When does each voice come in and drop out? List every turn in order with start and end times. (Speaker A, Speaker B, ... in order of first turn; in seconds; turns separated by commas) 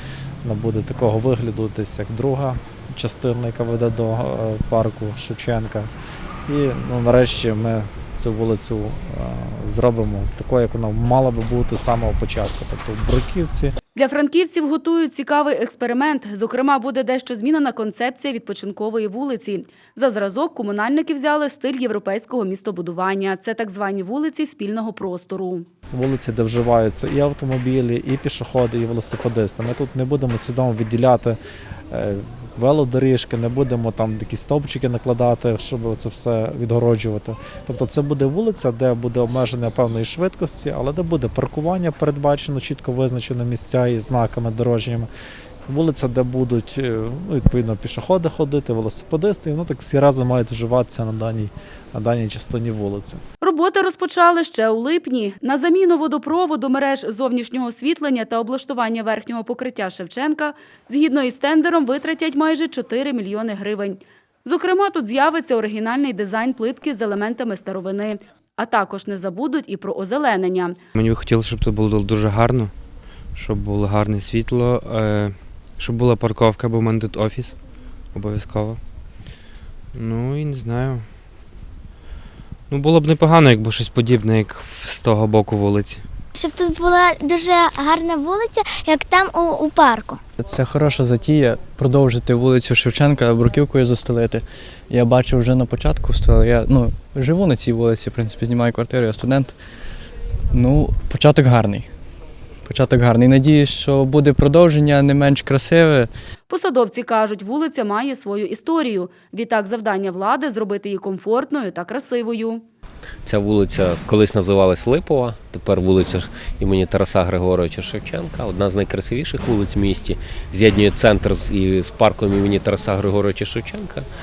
Speaker A: 0.4-5.9, Speaker A: 6.5-13.8, Speaker B: 13.9-25.7, Speaker A: 25.9-31.4, Speaker A: 31.9-45.1, Speaker A: 45.7-53.2, Speaker B: 53.4-70.8, Speaker C: 71.0-77.6, Speaker C: 78.1-78.8, Speaker C: 79.9-81.1, Speaker C: 82.7-86.0, Speaker D: 86.3-90.2, Speaker E: 90.5-94.5, Speaker E: 95.1-99.5, Speaker E: 100.7-101.8, Speaker E: 102.7-106.1, Speaker B: 106.5-112.6, Speaker F: 113.2-124.1